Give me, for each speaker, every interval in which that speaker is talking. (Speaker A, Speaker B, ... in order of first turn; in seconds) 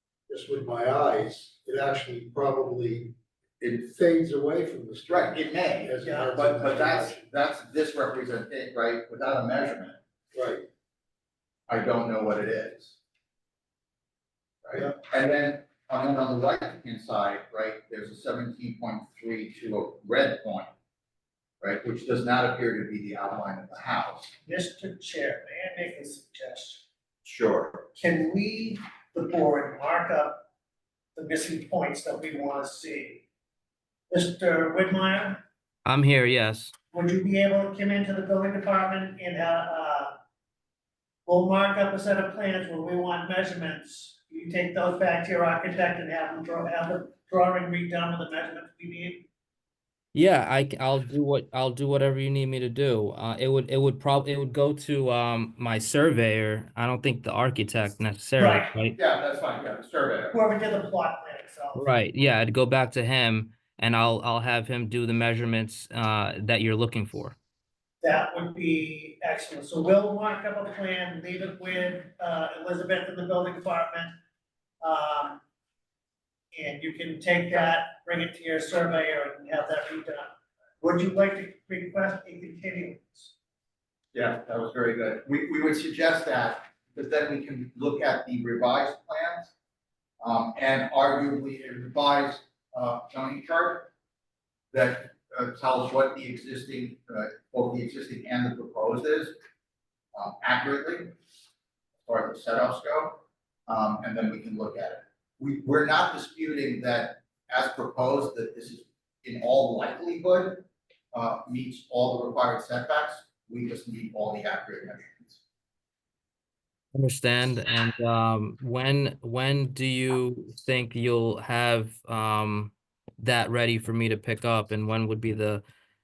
Speaker A: 0.3-7.2, 10.3-10.6
Speaker B: 5.1-10.0, 11.7-13.0, 14.6-20.7, 21.6-24.3, 27.2-27.9, 59.0-60.3, 84.1-89.5, 90.2-93.9, 94.7-99.3, 100.1-101.1, 102.0-115.4
Speaker C: 6.0-6.3, 24.4-26.8, 28.0-30.4, 31.1-33.2, 34.1-35.4, 36.9-40.1, 41.2-49.2, 58.4-58.7, 60.3-61.9, 68.0-74.1, 74.8-75.4, 76.5-83.3
Speaker D: 35.8-36.7, 50.1-59.0, 61.7-67.3, 116.9-125.6